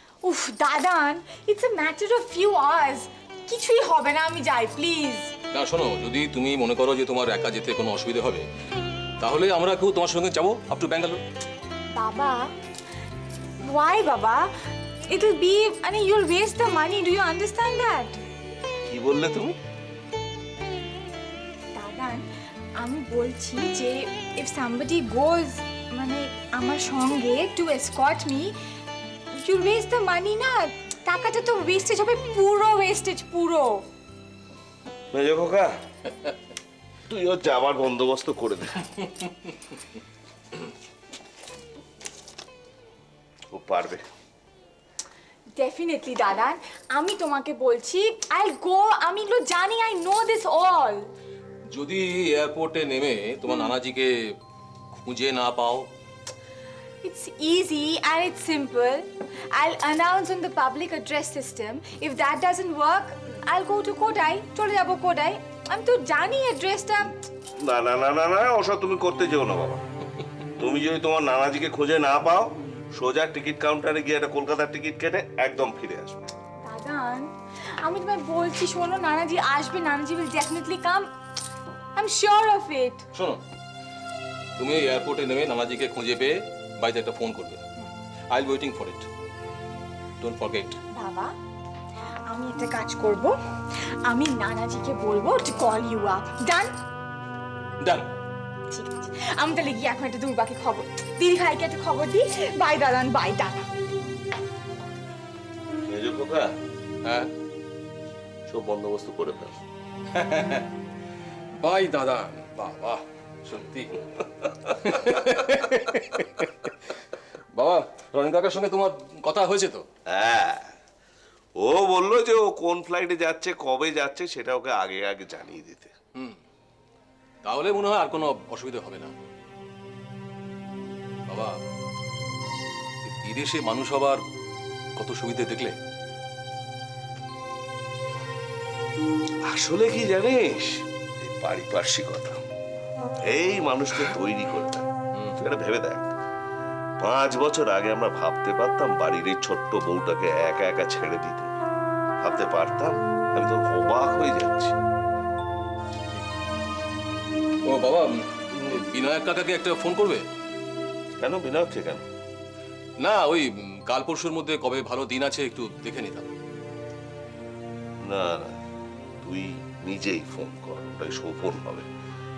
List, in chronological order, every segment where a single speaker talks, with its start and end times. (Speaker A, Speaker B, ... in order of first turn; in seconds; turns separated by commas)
Speaker A: 0.2-5.3, Speaker B: 5.5-8.4, Speaker B: 9.2-11.2, Speaker A: 11.9-12.5, Speaker A: 13.6-14.5, Speaker A: 15.1-18.2, Speaker C: 18.8-19.5, Speaker A: 21.7-22.2, Speaker A: 22.8-28.6, Speaker A: 29.3-33.8, Speaker C: 35.1-35.7, Speaker C: 37.1-39.0, Speaker C: 43.5-44.0, Speaker A: 45.5-51.1, Speaker B: 51.7-54.3, Speaker B: 55.0-55.9, Speaker A: 57.0-67.2, Speaker C: 67.5-69.8, Speaker C: 70.5-76.2, Speaker A: 76.6-81.1, Speaker A: 82.0-83.0, Speaker B: 83.1-83.4, Speaker B: 84.6-87.6, Speaker B: 88.3-89.1, Speaker B: 90.2-90.8, Speaker A: 90.9-91.3, Speaker A: 92.3-93.4, Speaker A: 94.0-96.7, Speaker B: 97.8-98.0, Speaker A: 98.7-103.7, Speaker C: 105.9-106.6, Speaker B: 107.0-107.3, Speaker C: 108.5-109.6, Speaker B: 110.1-110.7, Speaker B: 111.6-114.0, Speaker B: 114.6-116.7, Speaker B: 117.5-119.8, Speaker C: 120.0-120.7, Speaker C: 121.6-125.9, Speaker B: 127.4-129.1, Speaker B: 131.3-131.5, Speaker B: 133.0-134.2, Speaker B: 135.0-135.8, Speaker C: 139.5-142.4, Speaker C: 143.2-146.1, Speaker C: 147.0-151.5, Speaker C: 152.2-154.7, Speaker B: 157.7-160.2, Speaker C: 158.5-158.8, Speaker C: 161.2-162.0, Speaker B: 163.0-166.3, Speaker C: 168.0-168.6, Speaker C: 169.2-171.9